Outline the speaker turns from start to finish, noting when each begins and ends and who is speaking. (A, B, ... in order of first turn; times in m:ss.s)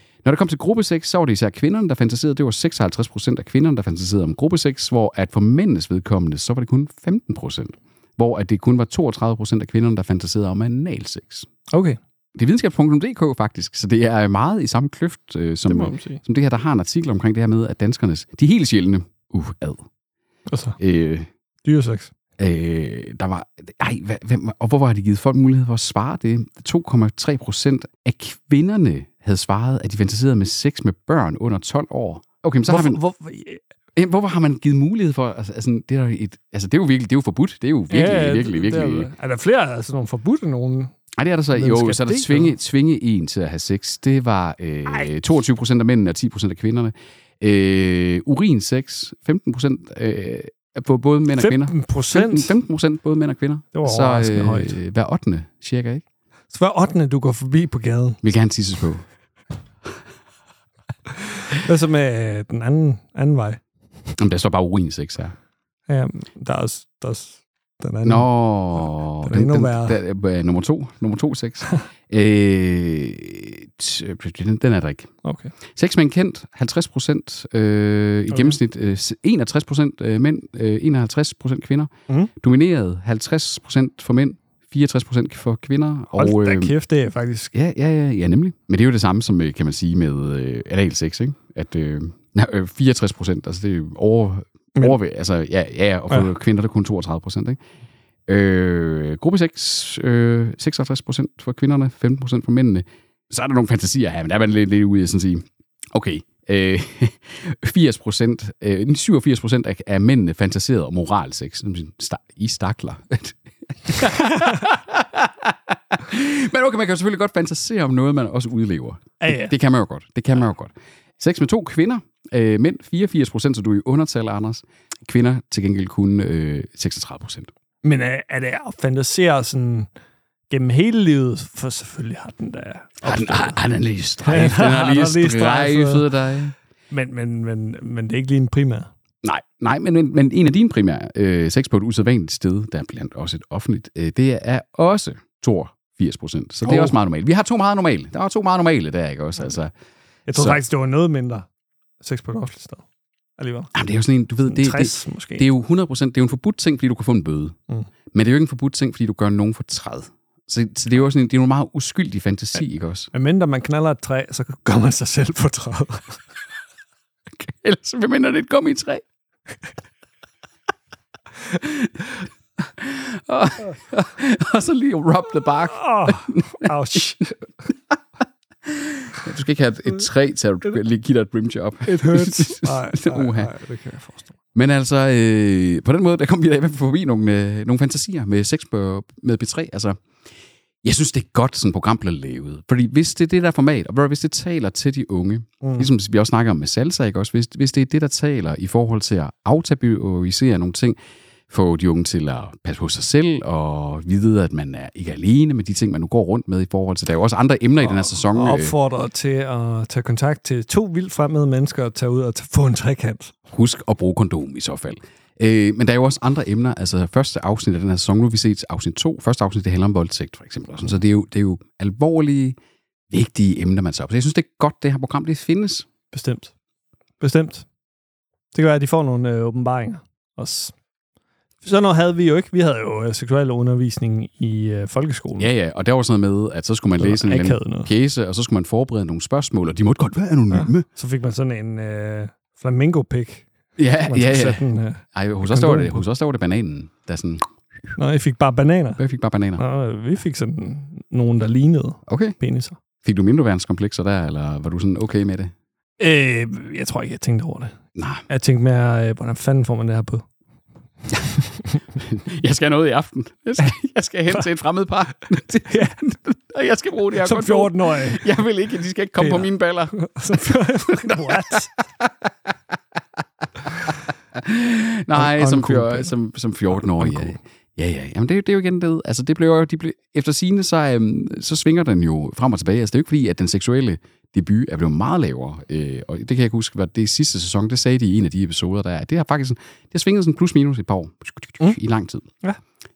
0:00.2-0:11.5 A
0:11.7-0:12.0 B
0:12.4-0:19.9 A
0:15.7-0:16.2 B
0:20.5-0:20.8 B
0:20.8-0:21.3 A
0:21.6-0:22.1 B
0:22.4-0:33.0 A
0:32.7-0:33.6 B
0:34.0-0:39.1 A
0:37.9-0:41.0 B
0:41.2-0:56.0 A
0:41.6-0:42.5 B
0:51.4-0:52.6 B
0:53.7-0:54.8 B
0:56.5-0:58.2 B
0:58.2-0:59.0 A
1:01.3-1:03.6 B
1:04.2-1:05.3 A
1:05.9-1:08.3 B
1:08.0-1:15.1 A
1:09.2-1:10.0 B
1:15.2-1:15.6 B
1:15.7-1:26.7 A
1:26.2-1:27.5 B
1:27.5-1:37.6 A
1:38.3-2:07.5 A
1:59.2-1:59.5 B
2:07.8-2:09.9 B
2:10.5-2:13.6 B
2:13.0-2:16.5 A
2:14.2-2:16.1 B
2:16.9-2:18.9 B
2:19.2-2:29.7 A
2:26.7-2:27.0 B
2:30.3-2:31.5 B
2:30.3-2:30.6 A
2:32.0-2:32.8 B
2:33.4-2:33.7 B
2:33.8-2:37.6 A
2:34.5-2:35.5 B
2:38.1-2:43.1 A
2:43.1-2:46.2 B
2:47.4-2:49.0 A
2:51.5-2:58.0 A
2:55.7-2:57.4 B
2:58.6-3:03.5 A
3:01.9-3:04.4 B
3:04.6-3:10.0 A
3:10.8-3:21.0 A
3:15.6-3:15.9 B
3:21.5-3:28.8 A
3:27.8-3:33.4 B
3:33.5-3:42.6 A
3:43.1-3:45.9 A
3:46.1-3:46.5 B
3:47.2-3:47.7 B
3:48.5-3:50.8 B
3:51.6-3:55.5 B
3:55.4-4:00.8 A
3:57.0-3:57.9 B
4:00.5-4:03.5 B
4:03.8-4:07.9 A
4:04.1-4:06.0 B
4:08.0-4:09.0 B
4:09.0-4:09.6 A
4:09.6-4:12.8 B
4:12.1-4:12.4 A
4:13.0-4:15.5 A
4:16.0-4:17.8 B
4:18.0-4:18.2 A
4:18.3-4:20.3 B
4:22.0-4:32.5 A
4:25.7-4:26.0 B
4:27.2-4:28.3 B
4:29.2-4:31.8 B
4:33.9-4:52.3 A
4:35.1-4:36.1 B
4:36.7-4:37.4 B